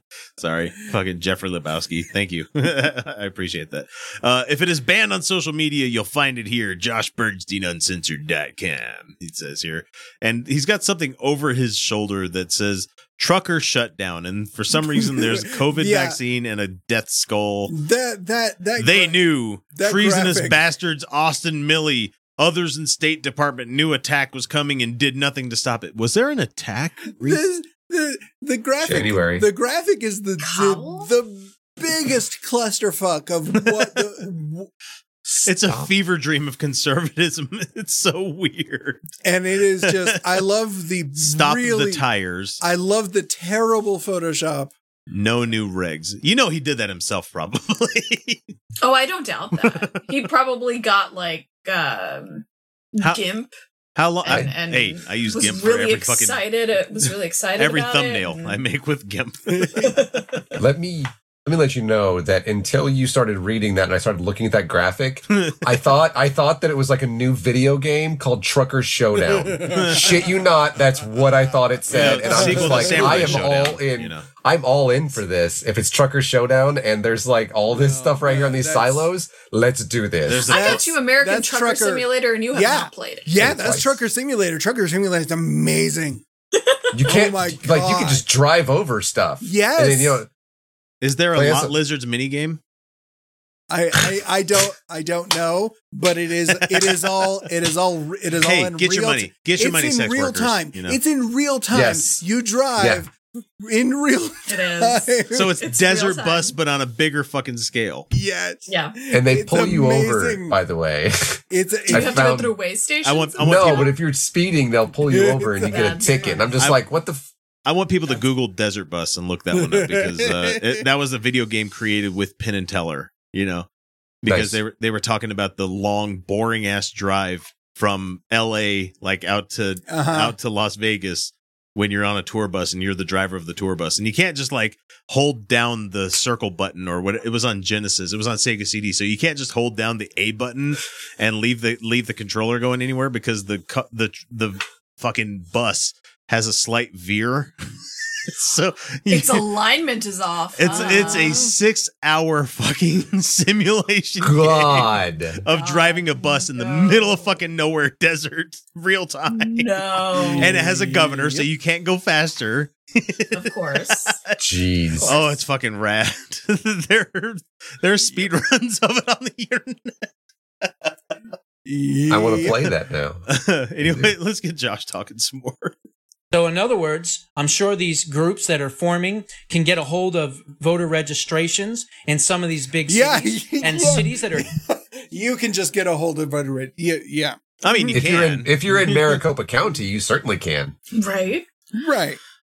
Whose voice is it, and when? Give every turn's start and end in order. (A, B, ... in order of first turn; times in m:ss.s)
0:00.4-0:17.7 A
0:15.2-0:16.2 B
0:17.7-0:19.2 B
0:18.8-0:27.4 A
0:19.7-0:20.6 B
0:27.2-0:34.7 B
0:28.8-0:29.5 C
0:30.4-0:31.1 D
0:35.4-0:39.0 A
0:39.2-0:42.0 B
0:39.8-0:40.4 A
0:41.2-0:42.6 A
0:42.6-0:44.7 B
0:45.1-0:48.4 A
0:48.8-0:53.5 D
0:49.6-0:50.0 A
0:54.0-0:56.4 A
0:54.2-0:58.6 D
0:57.6-0:59.9 A
0:59.8-1:00.5 D
1:00.6-1:20.5 C
1:05.3-1:05.6 A
1:09.4-1:10.1 B
1:09.6-1:10.2 A
1:11.9-1:14.3 A
1:11.9-1:13.5 B
1:17.7-1:19.1 B
1:20.2-1:20.9 A
1:20.5-1:23.3 D
1:20.5-1:26.2 B
1:23.4-1:24.0 C
1:26.6-1:26.9 D
1:26.9-1:30.3 C
1:27.0-1:28.2 B
1:29.4-1:30.2 B
1:31.0-1:32.6 A
1:31.3-1:31.8 C
1:33.7-1:45.5 B
1:36.5-1:37.3 A
1:38.4-1:41.0 A
1:41.7-1:42.2 C
1:42.8-1:43.0 C
1:44.5-1:46.6 D
1:45.3-1:48.1 A
1:48.1-1:50.6 B
1:48.7-1:49.0 D
1:49.1-1:52.6 C
1:51.5-1:52.3 B
1:51.9-1:53.9 D
1:53.0-1:53.9 A
1:53.4-1:57.3 C
1:55.1-1:56.4 B
1:55.6-1:56.6 D
1:56.6-1:56.8 A
1:57.6-2:03.7 A
1:59.5-2:00.6 B
2:04.2-2:27.5 A
2:04.2-2:04.6 C
2:09.9-2:10.4 B
2:28.2-2:29.5 A
2:29.1-2:31.5 D
2:30.6-2:39.8 A
2:30.7-2:31.5 B
2:34.2-2:35.4 C
2:35.5-2:37.4 D
2:39.3-2:40.6 D
2:40.1-2:41.5 B
2:40.4-2:50.1 A
2:43.3-2:44.2 D
2:44.4-2:45.2 C
2:45.0-2:45.3 D
2:50.6-2:50.9 A
2:51.6-2:52.7 B
2:52.1-2:53.2 C
2:53.3-2:55.8 A
2:53.8-2:54.1 C
2:56.3-3:04.5 E
3:02.9-3:08.0 B
3:07.6-3:09.2 A
3:07.9-3:10.8 C
3:10.9-3:11.9 D
3:11.8-3:12.2 B